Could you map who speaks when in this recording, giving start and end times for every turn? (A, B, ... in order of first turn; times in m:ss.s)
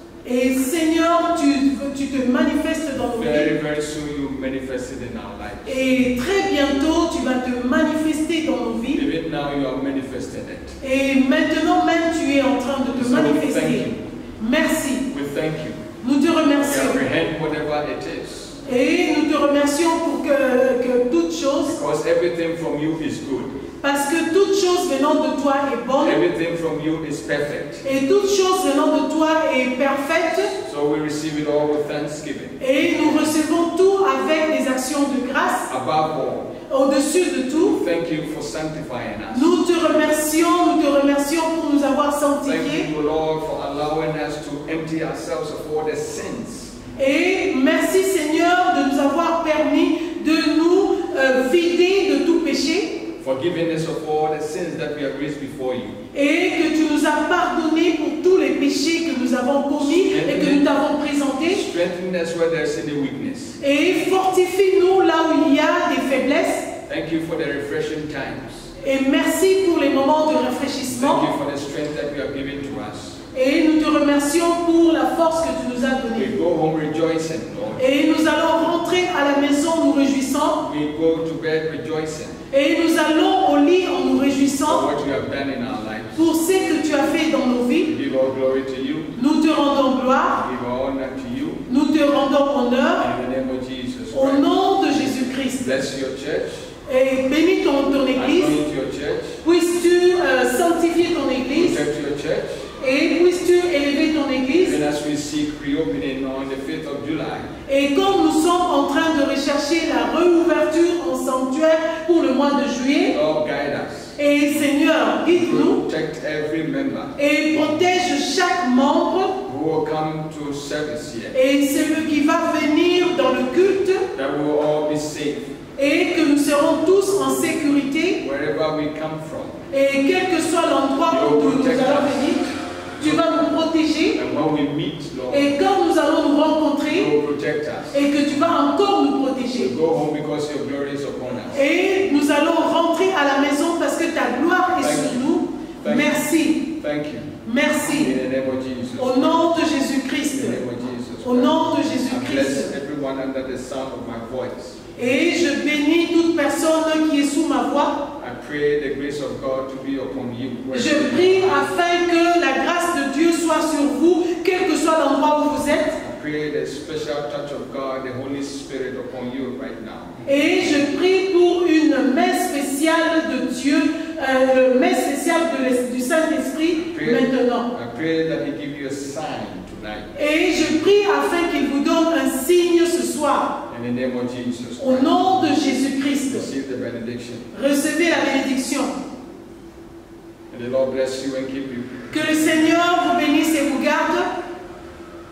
0:00.2-0:03.6 A
0:03.1-0:05.8 B
0:05.7-0:09.0 A
0:08.9-0:10.8 B
0:10.8-0:15.1 A
0:12.9-0:14.0 B
0:15.1-0:15.8 B
0:16.0-0:17.0 A
0:16.6-0:18.6 B
0:18.6-0:21.8 A
0:21.7-0:23.6 B
0:23.8-0:26.2 A
0:26.0-0:27.8 B
0:27.8-0:30.5 A
0:30.5-0:33.3 B
0:32.6-0:35.7 A
0:35.7-0:36.6 B
0:36.7-0:37.8 A
0:37.6-0:39.6 B
0:39.3-0:42.9 A
0:42.4-0:46.8 B
0:47.0-0:53.0 A
0:53.2-0:56.0 B
0:56.1-1:01.6 A
0:59.8-1:00.7 B
1:01.4-1:03.6 B
1:03.6-1:06.7 A
1:06.9-1:08.7 B
1:08.8-1:11.3 A
1:10.9-1:13.2 B
1:13.3-1:16.3 A
1:16.1-1:17.8 B
1:17.8-1:20.6 A
1:20.6-1:22.4 B
1:22.5-1:24.9 A
1:24.7-1:26.2 B
1:26.2-1:27.9 A
1:27.9-1:29.1 B
1:29.2-1:30.4 A
1:30.3-1:31.7 B
1:31.7-1:33.1 A
1:33.0-1:34.5 B
1:34.1-1:35.8 A
1:35.5-1:36.7 B
1:36.9-1:38.6 A
1:38.1-1:39.4 B
1:39.4-1:41.8 A
1:41.5-1:42.7 B
1:42.8-1:44.8 A
1:44.5-1:47.5 B
1:47.7-1:53.2 A
1:53.1-1:54.2 B
1:54.2-1:55.8 A
1:55.2-1:57.2 B
1:57.2-1:59.4 A
1:59.4-2:01.4 B
2:01.3-2:04.1 A
2:04.1-2:05.6 B
2:05.8-2:08.2 A
2:08.2-2:09.6 B
2:09.7-2:14.2 A
2:11.1-2:12.3 B
2:13.0-2:13.2 B
2:14.2-2:15.6 B
2:15.3-2:17.1 A
2:16.9-2:18.0 B
2:17.9-2:19.7 A
2:19.6-2:21.6 B
2:21.5-2:26.7 A
2:24.8-2:25.3 B
2:25.8-2:29.6 B
2:27.4-2:28.1 A
2:29.0-2:30.6 A
2:30.3-2:34.9 B
2:31.2-2:32.7 A
2:35.0-2:38.1 A
2:38.2-2:41.6 B
2:40.7-2:46.0 A
2:46.0-2:50.2 B
2:50.2-2:57.7 A
2:56.8-3:00.1 B
3:00.2-3:03.6 A
3:03.7-3:05.7 B
3:04.8-3:06.5 A
3:06.2-3:07.5 B
3:07.5-3:09.0 A
3:10.5-3:12.6 B
3:12.1-3:14.3 A